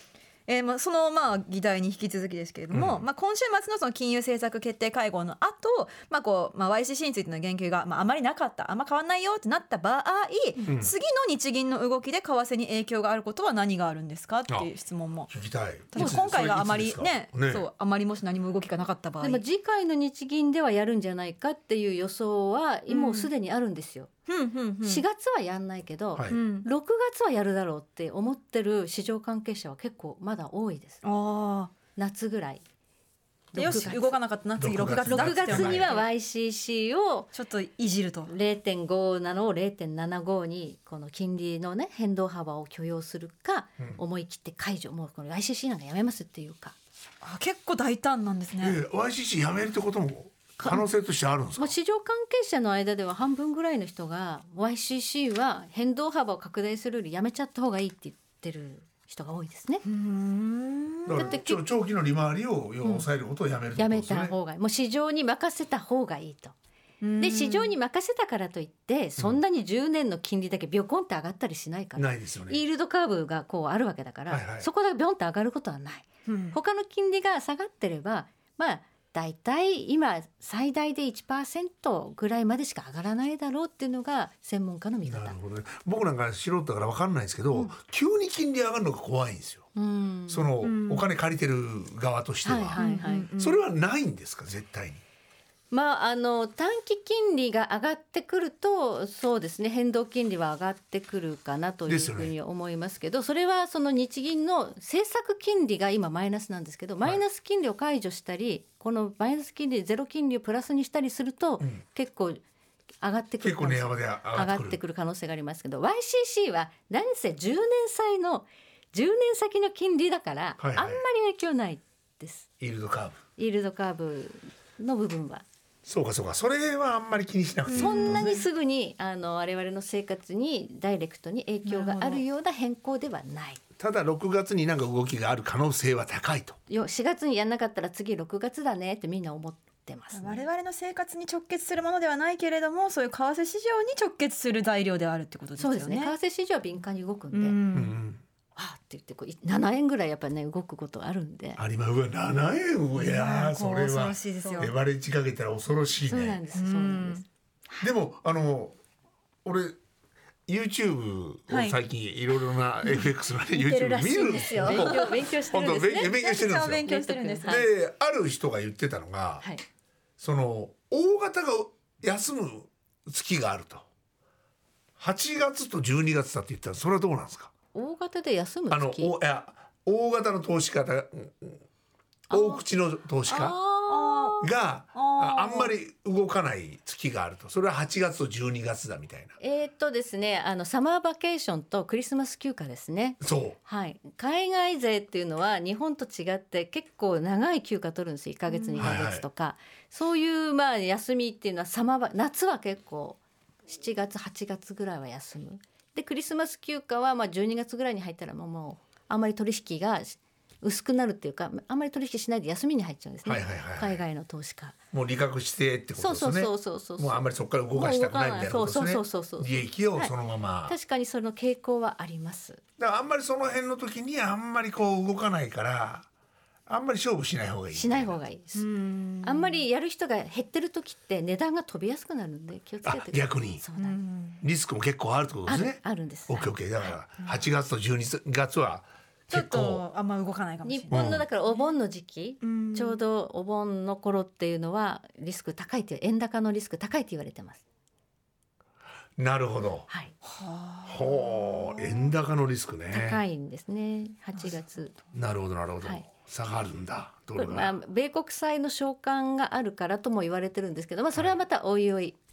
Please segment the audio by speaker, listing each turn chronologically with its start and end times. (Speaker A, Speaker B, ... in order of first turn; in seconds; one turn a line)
Speaker A: 0.5-15.3
Speaker B: 2.7-3.0
Speaker B: 10.7-10.9
Speaker B: 15.3-17.7
Speaker A: 15.9-19.4
Speaker C: 16.0-16.2
Speaker C: 19.2-24.1
Speaker A: 22.9-23.3
Speaker A: 24.3-25.0
Speaker C: 24.8-31.0
Speaker B: 26.1-26.4
Speaker A: 26.3-26.7
Speaker A: 31.0-31.7
Speaker C: 32.0-32.6
Speaker C: 33.5-34.1
Speaker A: 33.5-36.1
Speaker B: 34.6-36.0
Speaker C: 35.0-37.3
Speaker A: 37.3-38.3
Speaker C: 38.3-46.8
Speaker A: 47.2-48.8
Speaker B: 48.6-51.7
Speaker C: 50.6-50.9
Speaker C: 51.6-59.8
Speaker A: 59.8-61.3
Speaker B: 61.1-64.3
Speaker C: 61.1-61.6
Speaker C: 63.8-66.5
Speaker A: 67.0-67.7
Speaker C: 67.2-85.4
Speaker B: 72.0-72.6
Speaker B: 74.3-74.7
Speaker A: 76.3-76.6
Speaker B: 85.1-89.7
Speaker C: 89.8-90.5
Speaker B: 90.3-92.8
Speaker A: 90.6-91.0
Speaker C: 92.4-93.3
Speaker A: 92.8-93.6
Speaker B: 93.4-95.0
Speaker C: 95.7-112.4
Speaker B: 101.9-102.3
Speaker C: 113.0-122.5
Speaker B: 113.4-114.8
Speaker B: 120.6-121.0
Speaker B: 122.6-123.2
Speaker C: 123.4-125.5
Speaker B: 125.9-128.4
Speaker A: 127.7-128.4
Speaker C: 127.7-133.6
Speaker A: 131.7-132.2
Speaker B: 133.8-136.6
Speaker C: 136.7-140.4
Speaker A: 140.1-146.1
Speaker C: 145.6-147.6
Speaker A: 147.3-147.9
Speaker B: 147.7-148.2
Speaker C: 148.6-151.6
Speaker B: 151.6-156.4
Speaker A: 153.0-154.7
Speaker C: 154.4-154.7
Speaker C: 156.1-157.8
Speaker A: 156.6-157.2
Speaker B: 157.8-158.8
Speaker B: 159.4-159.8
Speaker B: 160.5-166.8
Speaker A: 161.5-161.8
Speaker A: 162.9-165.2
Speaker C: 164.5-166.3
Speaker A: 166.0-167.6
Speaker C: 166.8-167.7
Speaker B: 167.4-169.4
Speaker B: 170.2-173.9
Speaker B: 175.0-177.5
Speaker C: 177.7-179.1
Speaker B: 178.7-181.6
Speaker C: 182.3-182.6
Speaker B: 182.3-183.6
Speaker C: 183.3-184.4
Speaker A: 183.9-185.7
Speaker B: 184.4-189.4
Speaker C: 189.4-214.8
Speaker B: 193.2-193.6
Speaker A: 198.5-198.9
Speaker B: 198.8-199.2
Speaker B: 213.2-214.0
Speaker B: 214.9-220.8
Speaker C: 216.0-220.1
Speaker C: 220.7-222.6
Speaker B: 222.8-226.1
Speaker B: 226.7-228.2
Speaker C: 227.7-228.7
Speaker A: 228.5-229.6
Speaker C: 229.2-234.0
Speaker B: 232.8-233.6
Speaker A: 233.8-234.4
Speaker B: 234.4-239.8
Speaker C: 235.5-237.0
Speaker A: 239.3-241.7
Speaker C: 240.6-247.6
Speaker B: 240.9-241.2
Speaker A: 242.4-243.0
Speaker B: 249.2-249.9
Speaker C: 249.9-250.2
Speaker A: 250.2-252.1
Speaker B: 250.9-253.2
Speaker C: 252.9-254.9
Speaker B: 255.1-257.8
Speaker C: 257.4-262.2